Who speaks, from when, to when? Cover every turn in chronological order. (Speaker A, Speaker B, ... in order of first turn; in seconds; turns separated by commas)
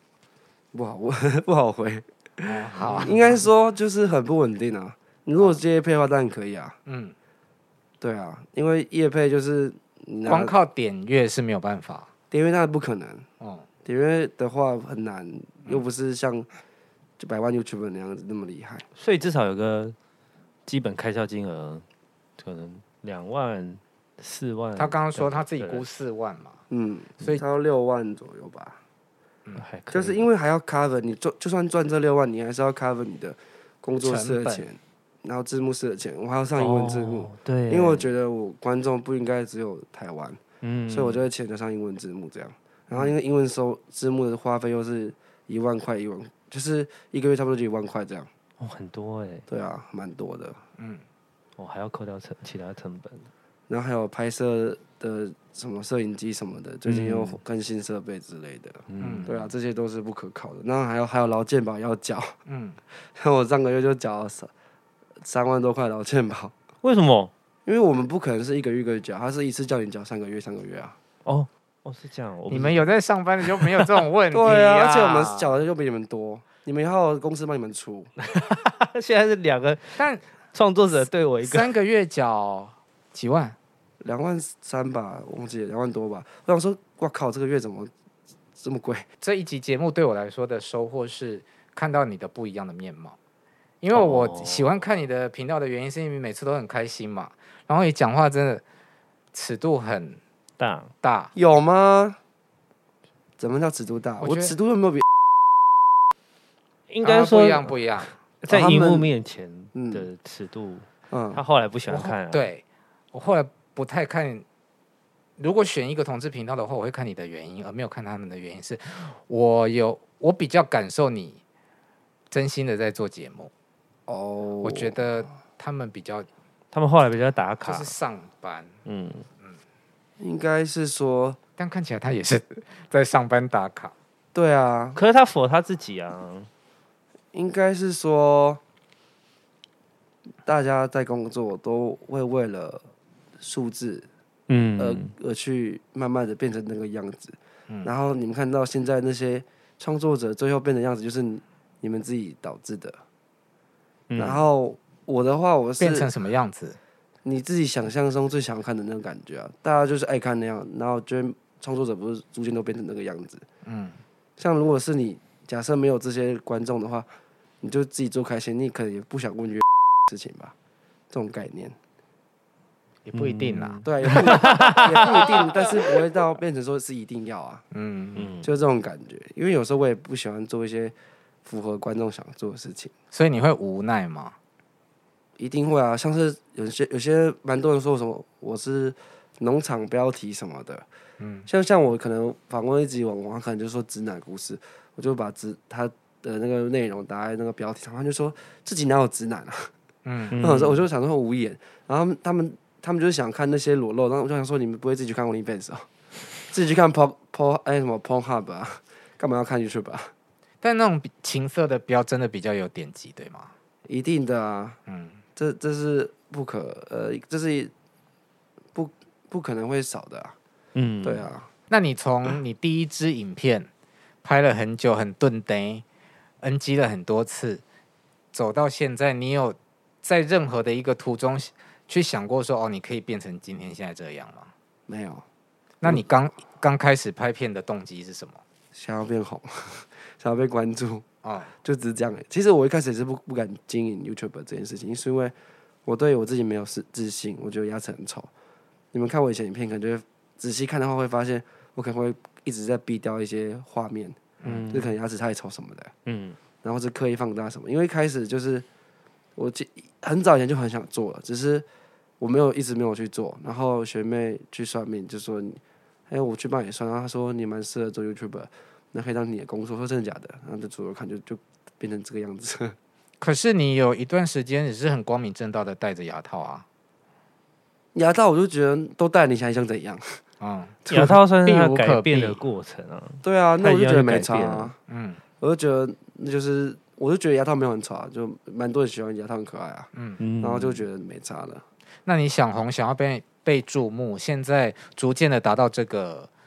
Speaker A: 0.7-6.8, Speaker B: 2.4-3.4, Speaker B: 6.8-7.1, Speaker A: 8.0-10.5, Speaker B: 10.2-12.1, Speaker A: 12.3-13.2, Speaker B: 13.4-13.7, Speaker A: 13.8-16.5, Speaker A: 17.2-18.9, Speaker C: 18.9-19.9, Speaker C: 20.6-21.8, Speaker C: 22.4-25.8, Speaker B: 24.8-26.6, Speaker A: 26.7-28.8, Speaker C: 29.6-30.2, Speaker A: 29.9-48.3, Speaker B: 34.0-34.6, Speaker C: 36.6-38.1, Speaker C: 40.6-41.2, Speaker C: 48.6-49.5, Speaker A: 49.5-50.6, Speaker B: 50.8-51.0, Speaker C: 51.6-53.3, Speaker A: 53.7-62.4, Speaker C: 56.9-57.4, Speaker C: 58.9-59.5, Speaker B: 59.0-59.3, Speaker B: 62.5-62.8, Speaker A: 63.1-64.5, Speaker A: 65.2-66.5, Speaker C: 66.8-67.3, Speaker A: 67.6-71.0, Speaker C: 71.2-72.9, Speaker B: 72.5-75.5, Speaker C: 73.4-73.9, Speaker A: 74.3-78.1, Speaker C: 78.2-81.7, Speaker B: 80.0-80.2, Speaker B: 81.4-83.5, Speaker A: 84.0-87.9, Speaker A: 88.6-89.0, Speaker B: 89.2-93.2, Speaker B: 93.8-98.6, Speaker C: 93.9-94.8, Speaker B: 99.3-100.2, Speaker C: 100.6-100.9, Speaker B: 101.0-101.3, Speaker A: 101.3-102.2, Speaker A: 103.4-105.0, Speaker B: 104.2-104.5, Speaker C: 106.9-107.8, Speaker B: 107.0-108.1, Speaker C: 108.4-112.5, Speaker A: 108.5-109.1, Speaker A: 109.7-110.1, Speaker A: 111.1-111.4, Speaker B: 111.9-114.4, Speaker B: 115.4-121.4, Speaker B: 122.3-123.5, Speaker A: 124.1-125.0, Speaker B: 124.6-126.3, Speaker C: 126.7-127.9, Speaker B: 127.6-128.8, Speaker C: 128.8-129.2, Speaker A: 130.2-131.4, Speaker B: 131.6-133.9, Speaker A: 134.3-135.0, Speaker C: 134.9-136.5, Speaker A: 137.3-138.6, Speaker A: 140.4-142.8, Speaker A: 143.4-144.1, Speaker C: 144.5-145.1, Speaker A: 144.8-153.0, Speaker C: 154.1-154.4, Speaker A: 154.2-156.1, Speaker B: 155.8-156.8, Speaker A: 157.2-163.4, Speaker B: 163.6-164.0, Speaker A: 164.4-167.1, Speaker A: 167.6-170.5, Speaker A: 171.1-171.8, Speaker B: 173.0-173.8, Speaker C: 173.1-175.6, Speaker A: 173.8-177.6, Speaker B: 177.7-178.3, Speaker C: 178.2-178.5, Speaker A: 178.4-180.9, Speaker A: 181.4-182.9, Speaker B: 183.1-184.3, Speaker A: 185.4-190.8, Speaker B: 191.2-191.5, Speaker A: 191.5-199.7, Speaker B: 200.0-200.4, Speaker C: 200.3-200.8, Speaker A: 200.4-210.1, Speaker B: 210.6-213.5, Speaker A: 213.9-214.8, Speaker B: 214.9-215.2, Speaker A: 215.3-217.7, Speaker A: 218.7-220.3, Speaker C: 220.7-221.3, Speaker A: 221.0-221.5, Speaker B: 221.7-223.7, Speaker B: 224.2-225.8, Speaker B: 226.4-227.6, Speaker B: 228.3-234.5, Speaker A: 234.9-235.2, Speaker B: 235.8-238.4, Speaker A: 238.7-241.1, Speaker B: 241.2-241.5, Speaker A: 241.6-245.3, Speaker A: 245.8-248.3, Speaker A: 248.9-254.2, Speaker B: 254.4-254.7, Speaker C: 254.4-254.9, Speaker A: 254.7-255.9, Speaker C: 256.1-256.4, Speaker A: 256.6-258.6, Speaker A: 259.4-261.6, Speaker A: 262.2-272.8, Speaker B: 273.2-276.6, Speaker A: 277.9-280.2, Speaker B: 280.4-282.4, Speaker A: 280.9-281.1, Speaker C: 280.9-284.7, Speaker A: 283.2-284.8, Speaker B: 284.9-285.2, Speaker A: 285.4-289.9, Speaker C: 290.2-290.9, Speaker A: 290.4-291.6, Speaker B: 292.1-296.3